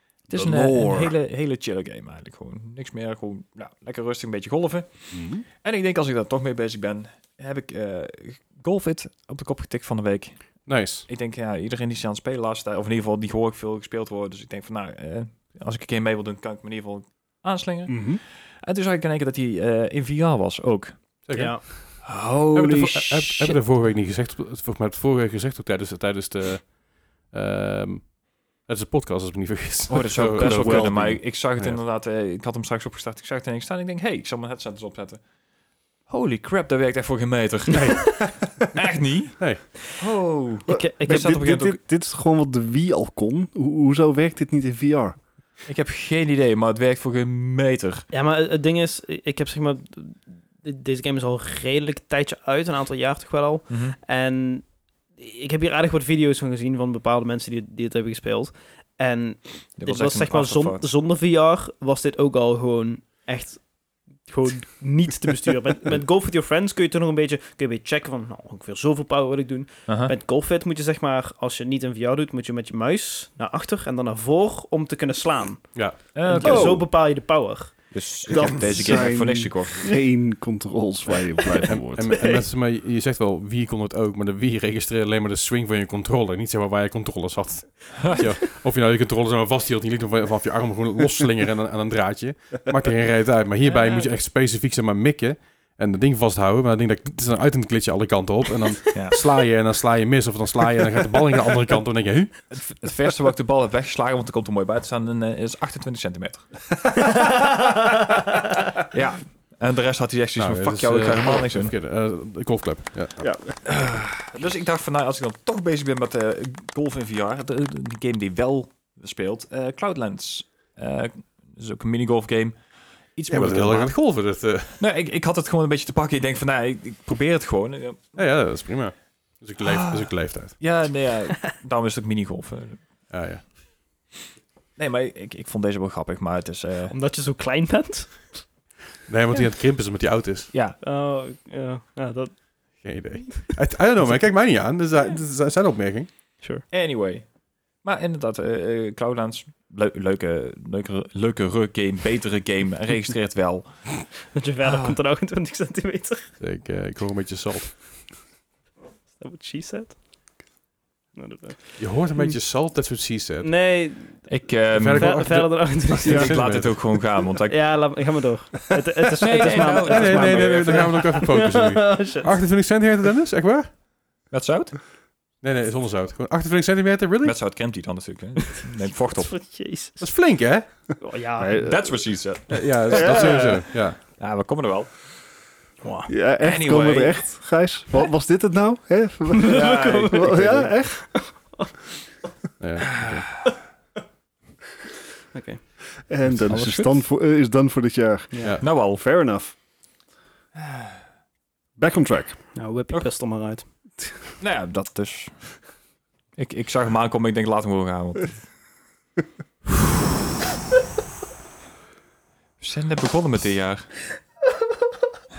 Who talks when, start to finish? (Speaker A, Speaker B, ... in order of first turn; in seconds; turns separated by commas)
Speaker A: 0.3-21.2, Speaker B: 0.3-1.1, Speaker B: 5.1-5.4, Speaker C: 10.7-11.1, Speaker B: 17.9-18.2, Speaker C: 21.2-31.8, Speaker D: 21.3-21.6, Speaker A: 22.0-23.5, Speaker A: 29.9-35.2, Speaker B: 30.3-31.2, Speaker A: 36.1-41.8, Speaker C: 37.7-38.1, Speaker D: 40.7-41.4, Speaker B: 40.7-45.1, Speaker A: 45.6-48.1, Speaker D: 48.1-77.8, Speaker A: 53.7-54.0, Speaker A: 59.8-60.8, Speaker A: 69.9-70.1, Speaker A: 76.1-76.9, Speaker B: 76.4-76.8, Speaker A: 77.9-79.9, Speaker B: 78.3-82.3, Speaker C: 81.7-102.4, Speaker A: 102.5-106.7, Speaker A: 108.9-111.7, Speaker C: 110.4-113.2, Speaker B: 113.2-113.6, Speaker A: 113.6-122.6, Speaker A: 123.1-124.0, Speaker C: 123.3-124.8, Speaker A: 124.8-128.2, Speaker C: 128.1-130.6, Speaker A: 129.6-132.8, Speaker C: 133.1-133.5, Speaker A: 134.8-136.9, Speaker D: 136.9-138.5, Speaker C: 139.1-140.5, Speaker A: 140.5-140.8, Speaker D: 140.8-142.8, Speaker C: 142.8-146.1, Speaker A: 146.7-147.3, Speaker A: 147.8-154.0, Speaker D: 154.3-156.3, Speaker A: 154.6-154.9, Speaker C: 156.4-157.8, Speaker D: 159.2-160.0, Speaker D: 161.1-162.3, Speaker C: 161.8-163.5, Speaker D: 163.4-166.3, Speaker A: 164.3-165.4, Speaker C: 164.7-166.9, Speaker A: 166.0-167.7, Speaker D: 167.5-172.3, Speaker A: 169.2-170.9, Speaker C: 169.7-173.7, Speaker A: 174.3-174.8, Speaker C: 175.4-177.4, Speaker A: 177.2-179.5, Speaker D: 178.5-180.0, Speaker C: 180.0-180.8, Speaker D: 181.0-181.9, Speaker B: 181.4-182.1, Speaker A: 181.6-185.0, Speaker C: 182.5-184.0, Speaker D: 182.9-183.4, Speaker D: 185.8-186.1, Speaker B: 186.1-191.4, Speaker A: 186.4-187.3, Speaker D: 189.3-191.8, Speaker A: 189.5-190.7, Speaker C: 192.6-193.3, Speaker A: 192.9-193.2, Speaker D: 195.3-195.7, Speaker B: 196.0-199.6, Speaker A: 196.4-197.0, Speaker C: 198.4-198.7, Speaker A: 198.6-199.0, Speaker A: 200.6-200.9, Speaker B: 201.8-202.5, Speaker D: 202.5-203.7, Speaker A: 204.4-205.6, Speaker A: 206.4-208.4, Speaker A: 212.6-214.1